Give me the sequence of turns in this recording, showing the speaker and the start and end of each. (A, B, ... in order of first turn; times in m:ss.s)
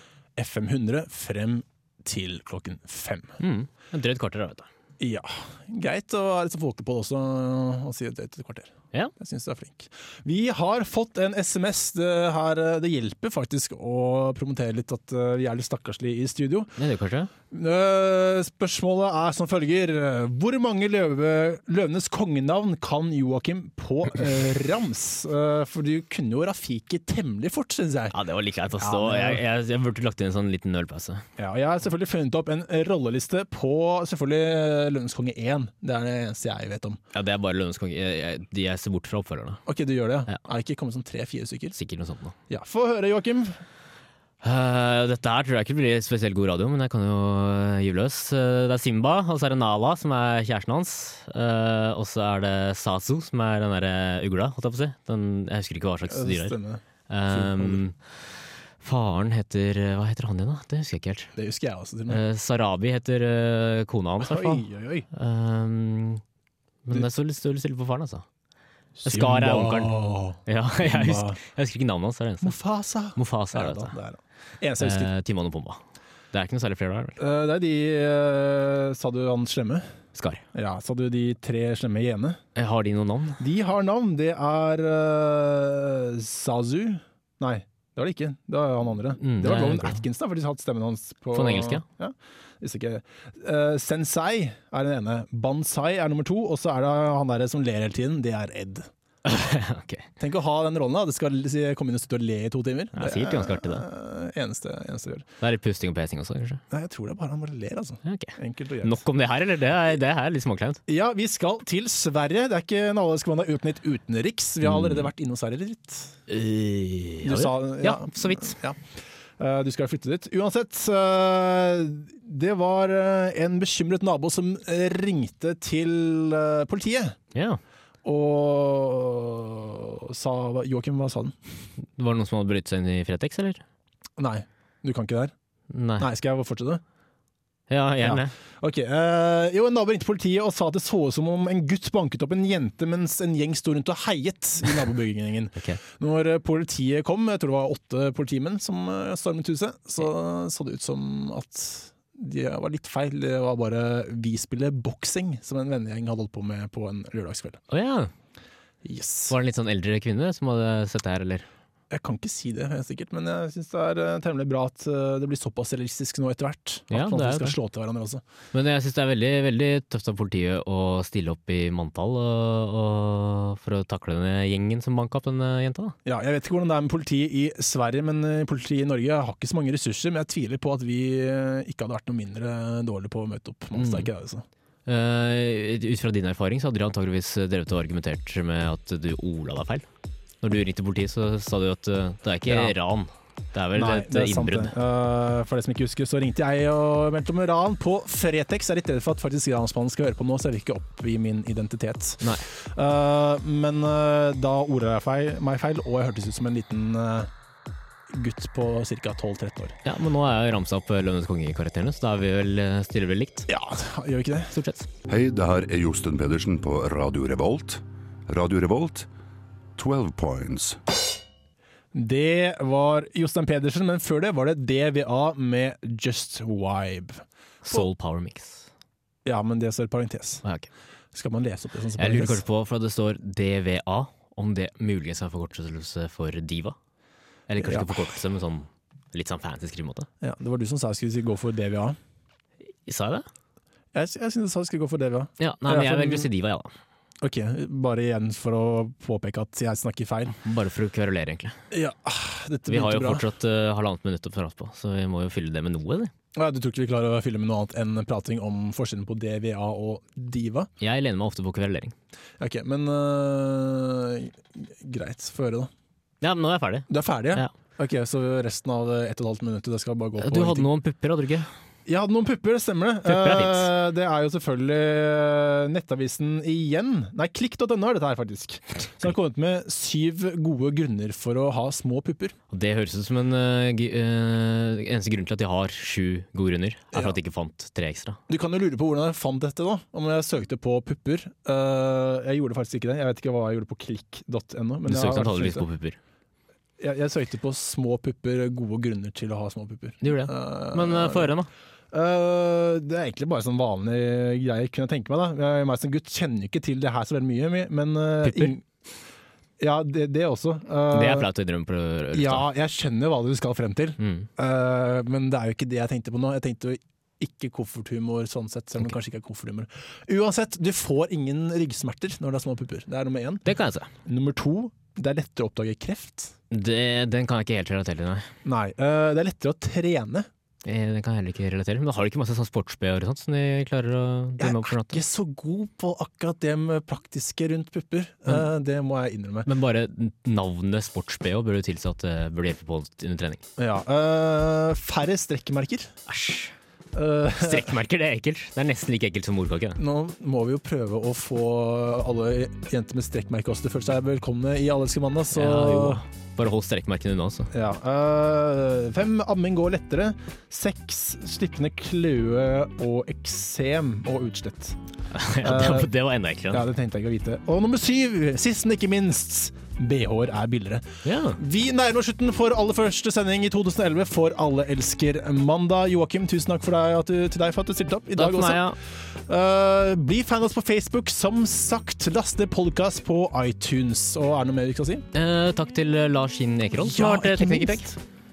0:00.4-0:03.4 A
0:03.4-0:04.7 B
0:05.0-0:16.7 A
0:16.8-0:17.3 B
0:17.5-0:28.1 A
0:28.1-0:31.2 B
0:28.8-0:29.4 A
0:31.4-0:37.0 A
0:37.1-0:39.6 B
0:39.6-0:41.7 A
0:41.7-0:42.3 B
0:42.5-0:43.6 A
0:44.4-0:56.6 B
0:56.1-0:57.8 A
0:57.1-0:58.3 B
0:58.8-1:01.3 B
1:01.3-1:02.2 A
1:02.1-1:06.2 B
1:04.2-1:05.1 A
1:06.8-1:08.2 B
1:09.0-1:11.4 A
1:09.0-1:12.6 B
1:12.4-1:15.1 A
1:13.1-1:13.9 B
1:14.8-1:15.8 B
1:16.3-1:17.2 B
1:17.2-1:19.9 A
1:20.1-1:20.4 B
1:20.5-1:22.4 A
1:22.6-1:23.4 B
1:23.4-1:38.9 A
1:29.2-1:30.0 B
1:31.3-1:31.8 B
1:39.2-1:40.1 B
1:40.2-1:45.3 A
1:42.9-1:43.8 B
1:45.4-1:46.6 B
1:46.7-1:49.0 A
1:48.0-1:50.8 B
1:50.9-1:56.2 A
1:54.6-1:55.0 B
1:56.3-1:58.6 B
1:57.2-1:58.8 A
1:59.4-2:07.2 A
2:07.3-2:07.6 B
2:08.0-2:11.4 A
2:12.0-2:13.6 B
2:14.2-2:15.3 A
2:15.7-2:16.1 B
2:16.0-2:16.8 A
2:17.7-2:18.3 B
2:18.0-2:37.6 A
2:37.7-2:38.1 B
2:38.8-2:39.3 A
2:39.3-2:41.5 B
2:41.9-2:48.2 A
2:46.9-2:47.6 B
2:48.5-2:55.9 B
2:56.0-3:04.4 A
3:03.7-3:04.1 B
3:04.8-3:09.8 B
3:10.4-3:14.7 B
3:12.5-3:12.7 A
3:13.7-3:27.3 A
3:28.1-3:29.8 A
3:29.8-3:33.5 B
3:33.5-3:34.6 A
3:34.5-3:34.9 B
3:35.1-3:39.1 C
3:39.8-3:40.8 C
3:41.9-3:47.9 A
3:47.6-3:48.7 B
3:49.2-3:50.4 A
3:50.4-3:50.7 B
3:51.1-3:52.4 A
3:52.0-3:56.8 B
3:57.5-4:00.1 B
3:57.6-3:58.1 A
4:00.2-4:02.0 A
4:02.8-4:03.2 B
4:03.9-4:06.3 A
4:05.4-4:06.7 B
4:07.2-4:10.4 A
4:10.4-4:11.6 B
4:11.7-4:13.2 A
4:12.7-4:16.1 B
4:16.3-4:20.7 A
4:20.8-4:21.9 B
4:22.4-4:25.7 A
4:26.2-4:27.5 B
4:26.9-4:30.7 A
4:30.2-4:31.5 B
4:31.9-4:42.3 A
4:33.0-4:33.7 B
4:42.5-4:48.2 B
4:48.3-4:55.6 A
4:54.8-4:56.0 B
4:56.8-5:01.3 A
5:00.0-5:01.5 B
5:01.9-5:08.6 A
5:08.2-5:08.5 B
5:09.6-5:11.3 A
5:10.9-5:12.4 B
5:12.1-5:23.5 A
5:14.0-5:14.3 B
5:23.4-5:23.9 B
5:24.0-5:26.3 A
5:26.5-5:28.3 B
5:28.4-5:30.3 A
5:30.6-5:35.0 B
5:34.4-5:39.5 A
5:39.4-5:43.4 B
5:43.6-5:45.9 A
5:46.0-5:46.5 B
5:46.9-5:47.7 A
5:47.4-5:49.8 B
5:49.8-5:56.0 A
5:55.3-5:57.5 B
5:57.5-6:04.8 A
6:05.1-6:06.6 B
6:05.4-6:05.9 A
6:06.5-6:10.9 A
6:11.0-6:11.4 B
6:11.4-6:25.0 A
6:18.1-6:18.8 B
6:25.1-6:28.0 B
6:26.8-6:27.9 A